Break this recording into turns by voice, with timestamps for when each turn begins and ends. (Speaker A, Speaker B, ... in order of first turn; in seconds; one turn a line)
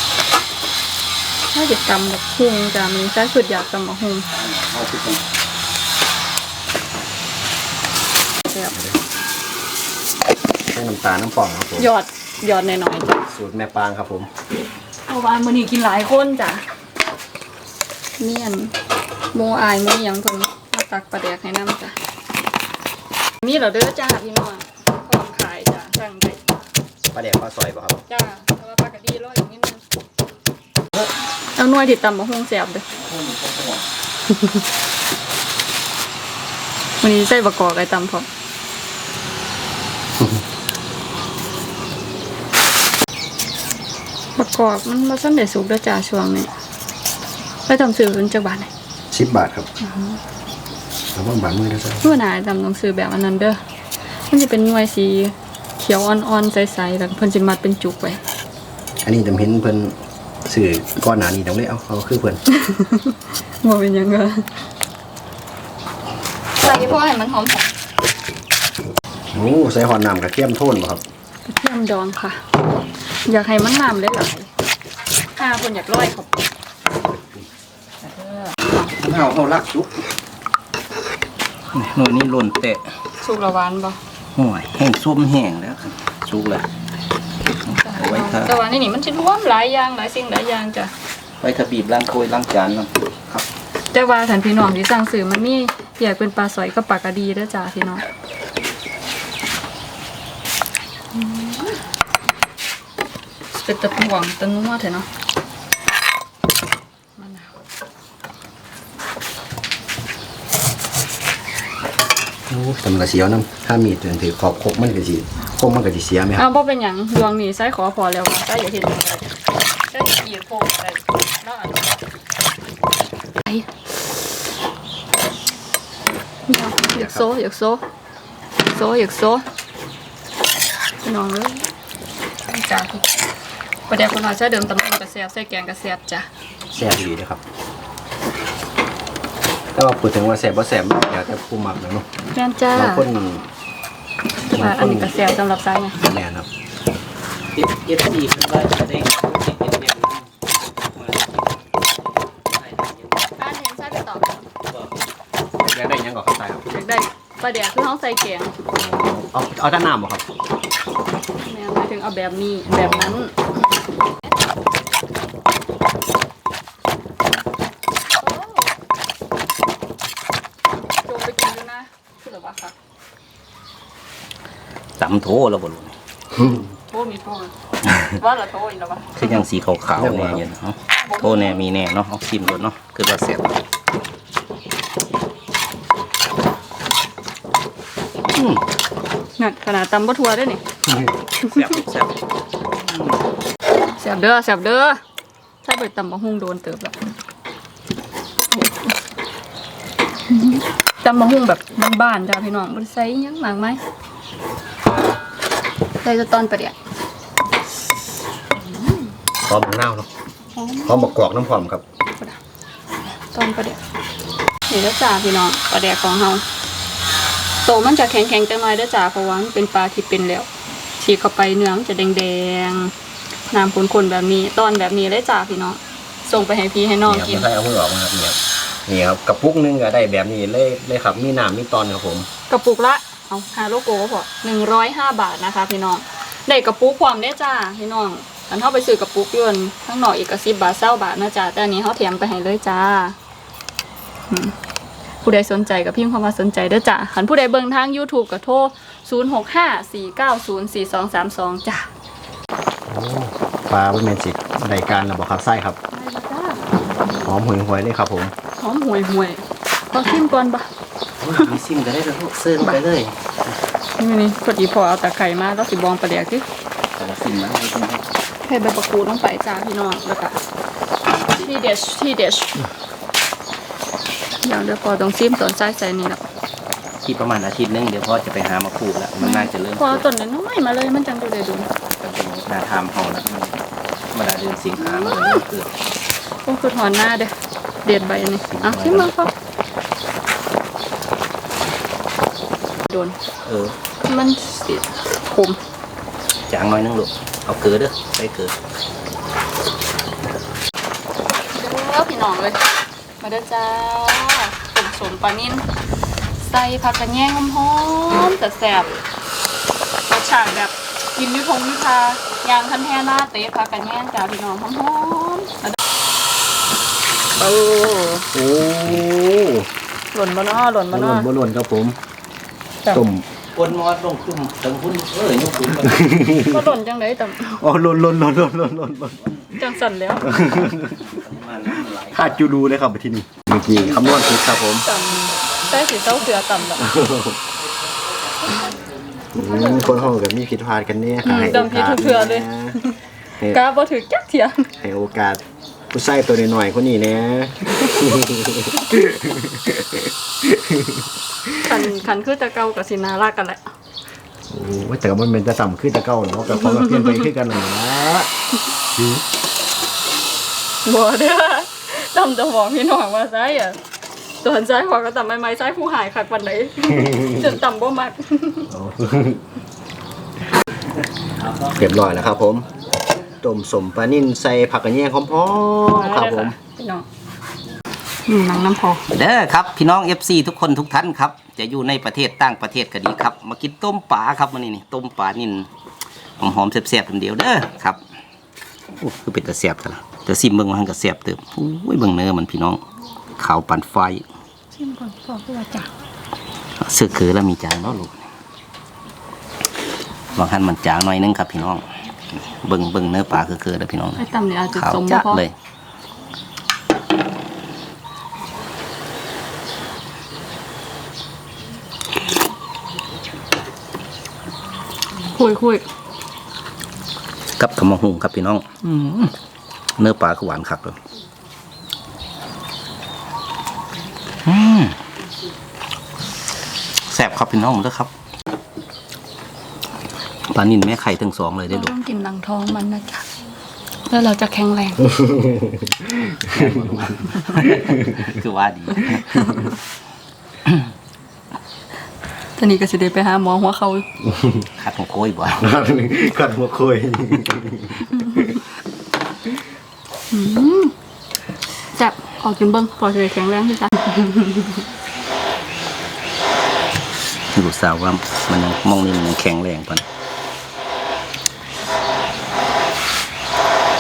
Speaker A: 1.5-4.3
Speaker B: 4.3-5.2
Speaker A: 8.5-8.7
Speaker C: 8.7-9.0
Speaker C: 10.7-11.9
Speaker A: 11.8-13.2
Speaker C: 13.3-14.3
Speaker A: 15.1-16.6
Speaker A: 18.2-18.7
Speaker A: 19.3-22.0
Speaker A: 23.4-26.4
Speaker C: 27.1-28.0
Speaker A: 28.1-29.8
Speaker A: 31.6-32.8
Speaker B: 32.9-33.9
Speaker A: 34.3-34.6
Speaker A: 37.0-38.3
Speaker A: 44.4-46.5
Speaker A: 47.7-48.7
Speaker C: 49.1-49.7
Speaker A: 49.8-50.2
Speaker C: 51.1-52.1
Speaker A: 52.0-53.6
Speaker A: 54.3-58.2
Speaker C: 59.0-60.0
Speaker C: 60.5-62.4
Speaker A: 62.5-64.5
Speaker A: 66.6-67.7
Speaker C: 69.3-71.0
Speaker A: 71.5-72.4
Speaker A: 73.3-74.5
Speaker A: 75.4-76.3
Speaker A: 78.0-78.8
Speaker B: 78.8-79.9
Speaker B: 81.7-82.8
Speaker A: 83.2-84.0
Speaker B: 84.4-86.7
Speaker A: 87.8-90.9
Speaker B: 87.9-88.5
Speaker B: 91.4-93.5
Speaker A: 93.9-98.0
Speaker A: 101.1-101.8
Speaker A: 103.5-105.1
Speaker A: 107.2-107.5
Speaker C: 112.5-116.4
Speaker A: 116.4-119.3
Speaker A: 119.9-122.0
Speaker A: 123.4-123.7
Speaker A: 126.5-127.8
Speaker C: 126.9-127.3
Speaker A: 128.7-129.4
Speaker A: 131.0-131.7
Speaker A: 132.5-133.1
Speaker A: 133.9-136.3
Speaker C: 136.7-137.4
Speaker C: 139.8-142.1
Speaker A: 142.3-143.1
Speaker C: 142.7-143.5
Speaker A: 144.5-146.0
Speaker C: 144.5-145.2
Speaker C: 146.0-146.5
Speaker B: 147.5-151.6
Speaker B: 152.5-153.3
Speaker A: 153.4-154.4
Speaker C: 155.7-156.7
Speaker A: 156.7-158.5
Speaker C: 158.7-160.2
Speaker A: 161.4-163.3
Speaker C: 162.7-163.2
Speaker A: 168.2-168.7
Speaker A: 171.1-172.8
Speaker B: 175.0-175.9
Speaker A: 176.4-179.4
Speaker B: 179.2-183.6
Speaker C: 180.0-180.4
Speaker A: 181.0-181.7
Speaker B: 188.3-188.6
Speaker A: 189.4-190.6
Speaker B: 191.4-192.2
Speaker A: 191.5-191.8
Speaker A: 194.0-195.0
Speaker A: 195.6-196.9
Speaker A: 198.5-198.9
Speaker A: 200.3-203.8
Speaker A: 206.0-206.8
Speaker A: 208.7-209.1
Speaker C: 209.4-210.1
Speaker A: 210.6-211.1
Speaker C: 210.8-211.8
Speaker A: 213.3-213.8
Speaker A: 214.7-216.4
Speaker A: 217.6-220.5
Speaker A: 221.0-222.9
Speaker A: 223.5-227.5
Speaker C: 227.1-232.3
Speaker A: 232.5-243.2
Speaker A: 245.2-251.9
Speaker C: 252.9-255.8
Speaker A: 255.9-256.7
Speaker C: 257.2-258.3
Speaker A: 258.6-260.7
Speaker B: 261.2-263.5
Speaker A: 264.0-266.4
Speaker B: 267.0-268.0
Speaker A: 268.4-270.4
Speaker A: 271.3-272.7
Speaker A: 274.4-276.2
Speaker B: 277.1-280.0
Speaker A: 279.2-281.7
Speaker B: 282.0-283.6
Speaker B: 284.1-285.7
Speaker A: 284.8-285.4
Speaker A: 286.5-287.3
Speaker A: 287.9-289.3
Speaker B: 288.5-289.1
Speaker A: 292.9-293.2
Speaker B: 293.4-293.8
Speaker A: 294.1-295.6
Speaker B: 296.5-298.5
Speaker A: 301.6-302.6
Speaker A: 303.2-305.6
Speaker A: 306.4-308.9
Speaker A: 310.1-315.8
Speaker A: 317.4-318.3
Speaker C: 318.3-319.7
Speaker A: 320.1-321.3
Speaker C: 320.9-322.0
Speaker C: 322.9-323.2
Speaker B: 323.6-326.1
Speaker C: 325.8-326.7
Speaker A: 326.4-327.6
Speaker C: 327.6-329.2
Speaker A: 329.6-330.3
Speaker C: 330.2-331.1
Speaker B: 330.4-332.4
Speaker C: 332.1-334.9
Speaker A: 334.8-336.9
Speaker C: 336.8-337.4
Speaker C: 339.4-342.8
Speaker A: 339.4-340.1
Speaker A: 341.2-344.7
Speaker C: 344.8-351.9
Speaker A: 351.6-353.7
Speaker C: 354.5-358.3
Speaker A: 356.5-357.3
Speaker C: 358.9-359.2
Speaker A: 360.9-363.8
Speaker A: 364.4-368.7
Speaker C: 368.7-369.4
Speaker B: 371.5-371.8
Speaker C: 371.7-372.7
Speaker C: 373.4-376.5
Speaker A: 375.9-377.1
Speaker A: 378.3-379.0
Speaker B: 379.1-385.7
Speaker B: 386.4-388.0
Speaker B: 389.0-392.8
Speaker B: 393.4-394.2
Speaker A: 394.8-395.9
Speaker B: 396.8-398.1
Speaker B: 400.4-401.8
Speaker B: 402.5-405.5
Speaker A: 404.2-405.4
Speaker A: 415.3-415.9
Speaker B: 417.6-419.3
Speaker B: 420.0-421.0
Speaker B: 424.4-425.0
Speaker B: 427.1-428.1
Speaker B: 430.5-431.9
Speaker A: 431.7-433.3
Speaker A: 434.1-435.1
Speaker C: 435.1-438.3
Speaker B: 436.5-439.7
Speaker A: 439.0-439.8
Speaker A: 442.6-444.1
Speaker C: 444.2-444.7
Speaker B: 444.8-445.7
Speaker C: 445.6-448.6
Speaker A: 450.3-450.9
Speaker A: 452.0-454.9
Speaker B: 457.5-460.1